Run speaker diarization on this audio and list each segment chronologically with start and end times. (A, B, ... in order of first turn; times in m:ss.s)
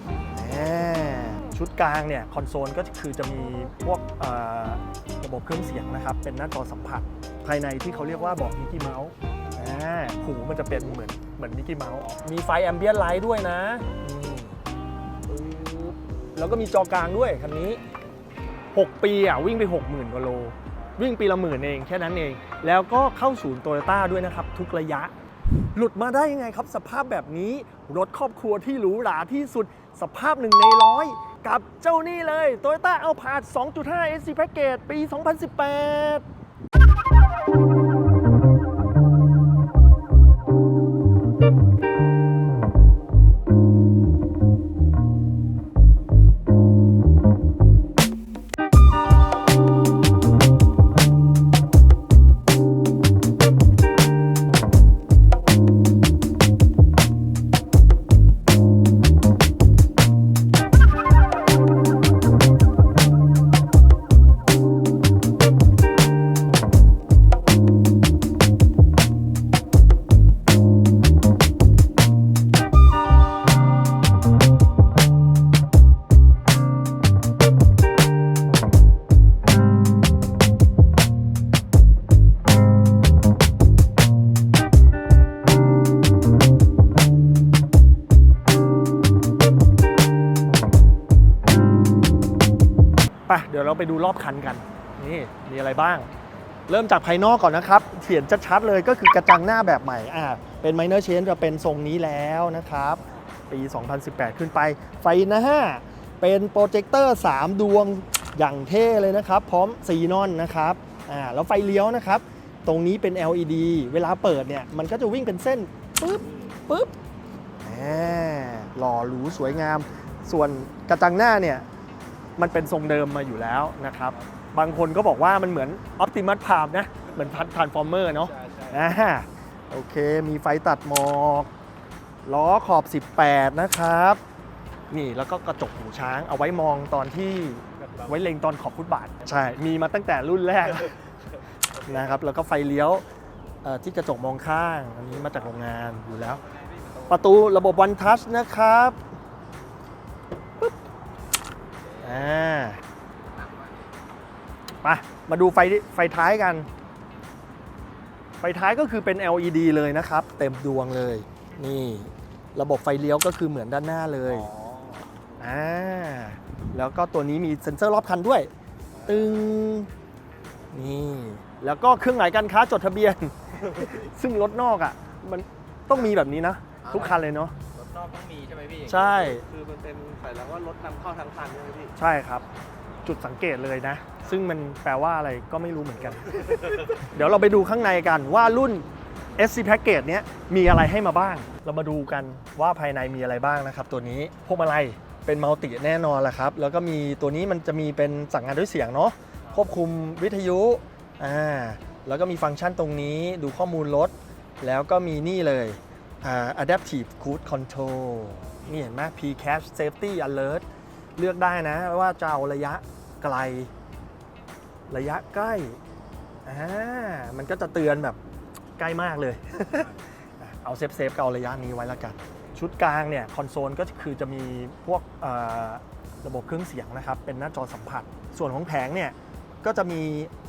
0:00.3-0:14.6 A
0:15.3-0:17.8 A
0:18.7-0:36.3 A
1:33.3-1:36.1 A
1:36.7-1:56.9 A
1:57.6-2:01.6 A
2:02.4-2:11.5 A
2:08.4-2:08.7 B
2:12.2-2:14.2 A
2:14.9-2:21.0 A
2:21.8-2:23.0 A
2:23.6-2:26.4 A
2:26.4-2:27.1 B
2:27.0-2:29.0 A
2:31.9-2:32.4 B
2:32.0-2:32.8 A
2:33.3-2:33.9 B
2:34.8-2:36.7 A
2:38.4-2:44.5 A
2:44.3-2:45.3 B
2:45.4-2:48.5 A
2:49.0-2:49.9 A
2:50.7-2:57.5 A
2:56.8-3:01.9 B
2:58.9-2:59.4 A
3:02.0-3:02.4 A
3:03.0-3:30.6 A
3:31.2-3:33.7 A
3:34.9-3:35.8 A
3:36.4-3:38.2 A
3:38.8-3:50.3 A